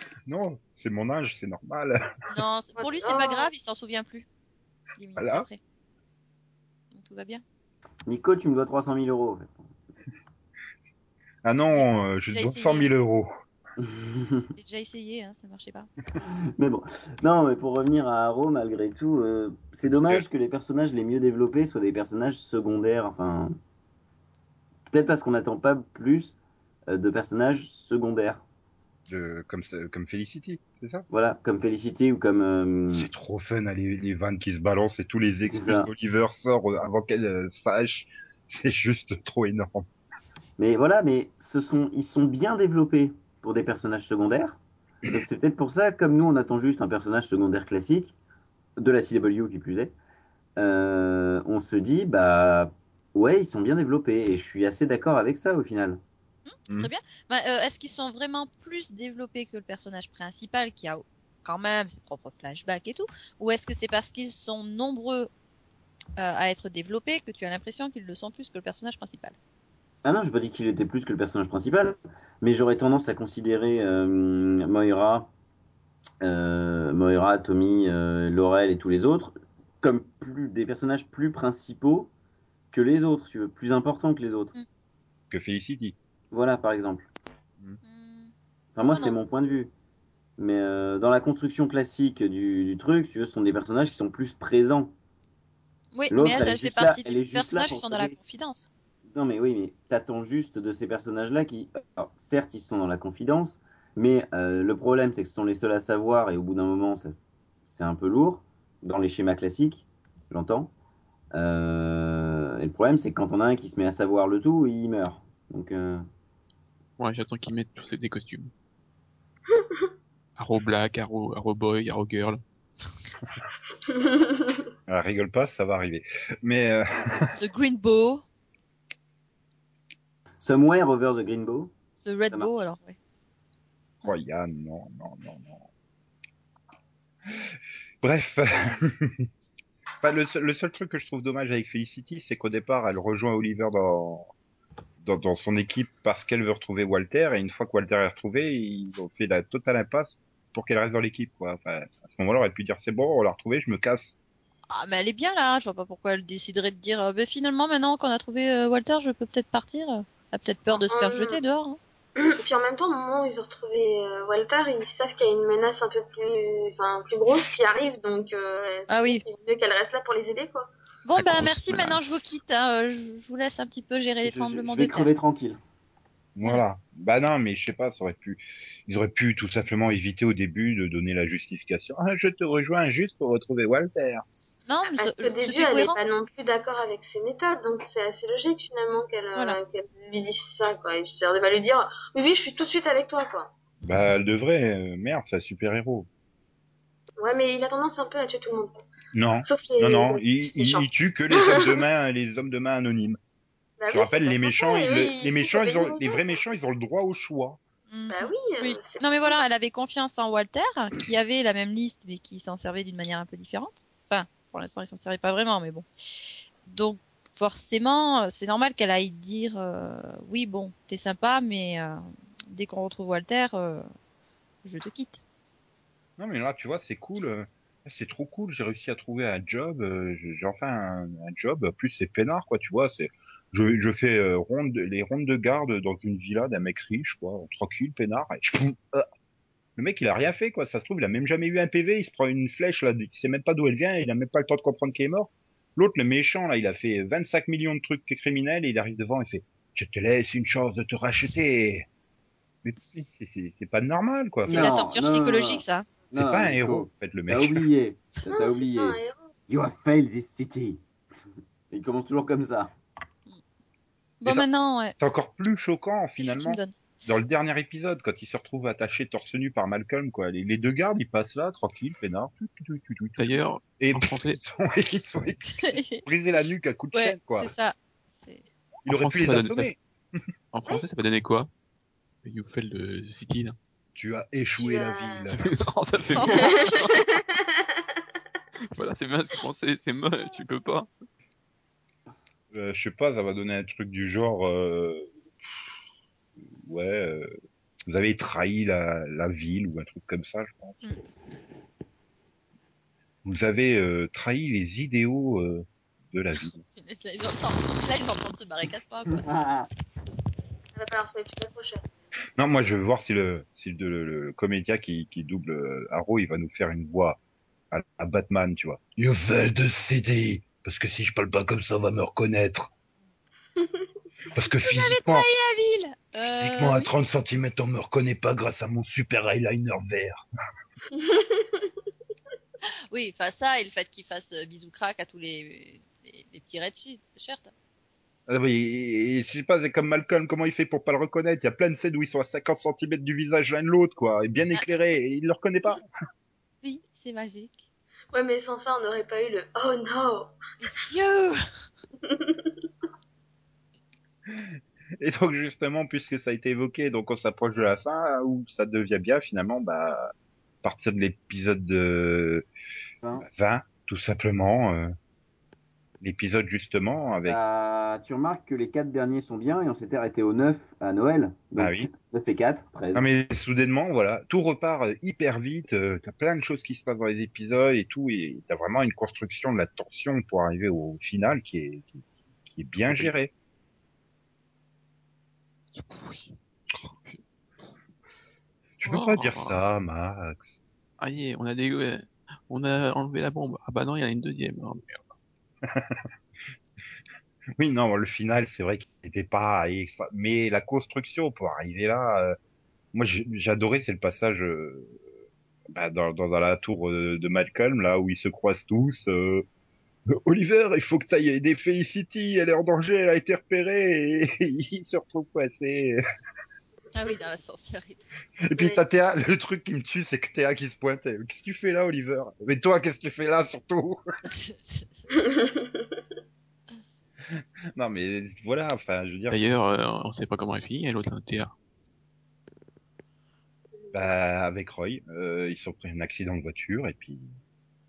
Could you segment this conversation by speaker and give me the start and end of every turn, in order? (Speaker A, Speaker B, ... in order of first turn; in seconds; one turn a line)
Speaker A: 0.3-2.0
Speaker B: 2.3-4.3
Speaker C: 2.8-3.5
Speaker B: 5.0-5.6
Speaker A: 5.2-5.5
Speaker B: 6.9-7.4
Speaker D: 8.1-9.7
Speaker A: 11.4-13.3
Speaker B: 11.7-12.9
Speaker D: 13.8-14.5
Speaker B: 14.6-15.9
Speaker D: 16.2-23.6
Speaker A: 19.9-20.3
Speaker D: 24.9-26.4
Speaker D: 26.9-28.4
Speaker A: 29.1-31.1
Speaker D: 31.1-33.1
Speaker A: 32.9-39.9
Speaker D: 35.5-35.9
Speaker D: 40.6-48.1
Speaker D: 48.8-49.9
Speaker D: 50.6-56.0
Speaker B: 56.5-65.3
Speaker B: 66.2-69.3
Speaker D: 70.0-75.3
Speaker D: 76.2-82.1
Speaker D: 82.7-84.5
Speaker A: 85.3-86.0
Speaker D: 86.3-87.1
Speaker B: 87.8-89.2
Speaker D: 88.8-89.7
Speaker D: 90.4-94.9
Speaker B: 95.9-98.7
Speaker D: 96.1-98.2
Speaker D: 99.1-107.2
Speaker D: 107.7-110.7
Speaker D: 111.3-116.0
Speaker E: 117.0-118.5
Speaker C: 119.5-119.9
Speaker E: 120.4-122.4
Speaker C: 123.9-124.7
Speaker A: 124.9-127.3
Speaker B: 127.3-128.2
Speaker D: 130.4-131.7
Speaker B: 132.0-133.0
Speaker A: 134.0-135.7
Speaker A: 138.0-139.3
Speaker A: 140.0-144.3
Speaker A: 145.0-154.2
Speaker B: 154.7-161.8
Speaker C: 160.8-161.4
Speaker C: 162.2-170.7
Speaker B: 168.9-169.2
Speaker B: 171.1-175.1
Speaker E: 171.2-172.0
Speaker D: 174.2-175.6
Speaker A: 176.3-184.2
Speaker B: 184.7-186.0
Speaker C: 185.0-193.5
Speaker A: 193.8-196.1
Speaker C: 197.2-198.8
Speaker A: 199.1-203.2
Speaker C: 199.4-201.8
Speaker C: 203.8-206.3
Speaker A: 203.9-207.6
Speaker B: 207.9-215.9
Speaker C: 208.1-209.4
Speaker B: 216.7-223.9
Speaker B: 224.6-225.2
Speaker A: 226.2-239.1
Speaker A: 239.8-251.9
Speaker A: 252.6-254.7
Speaker D: 254.4-260.8
Speaker B: 254.5-255.9
Speaker A: 256.1-257.7
Speaker C: 258.3-259.3
Speaker D: 261.7-262.7
Speaker B: 264.2-265.0
Speaker A: 265.0-277.5
Speaker B: 266.2-266.8
Speaker E: 273.2-274.4
Speaker B: 275.6-276.0
Speaker B: 276.9-278.4
Speaker A: 278.9-279.8
Speaker E: 278.9-279.7
Speaker E: 280.5-281.5
Speaker E: 282.2-283.6
Speaker A: 284.0-285.5
Speaker C: 284.6-285.3
Speaker E: 285.3-287.2
Speaker B: 286.1-286.5
Speaker C: 286.2-287.9
Speaker E: 288.7-290.9
Speaker A: 292.5-295.1
Speaker A: 296.4-297.3
Speaker A: 297.9-300.8
Speaker A: 303.2-306.6
Speaker B: 306.4-309.2
Speaker D: 309.1-309.7
Speaker C: 310.8-311.9
Speaker A: 312.4-317.2
Speaker A: 317.7-322.7
Speaker C: 323.6-323.9
Speaker A: 324.3-325.3
Speaker B: 324.6-326.9
Speaker A: 326.2-330.2
Speaker C: 330.9-331.7
Speaker B: 332.9-337.5
Speaker A: 338.3-345.9
Speaker B: 346.6-347.7
Speaker C: 348.1-350.4
Speaker B: 350.6-351.4
Speaker C: 352.0-352.6
Speaker A: 354.3-362.5
Speaker A: 363.2-364.9
Speaker A: 366.0-367.4
Speaker D: 367.2-373.1
Speaker A: 371.6-371.9
Speaker A: 372.9-383.3
Speaker E: 385.7-386.4
Speaker E: 386.9-387.2
Speaker A: 388.8-390.6
Speaker E: 388.9-389.6
Speaker E: 391.0-395.0
Speaker A: 395.6-396.1
Speaker A: 397.6-402.4
Speaker A: 402.9-405.0
Speaker A: 405.7-409.5
Speaker A: 410.1-416.0
Speaker B: 416.9-418.1
Speaker A: 418.4-424.0
Speaker C: 418.6-418.8
Speaker B: 424.2-425.0
Speaker C: 425.1-426.0
Speaker A: 427.3-429.5
Speaker E: 429.3-431.5
Speaker C: 433.8-434.1
Speaker A: 433.9-437.3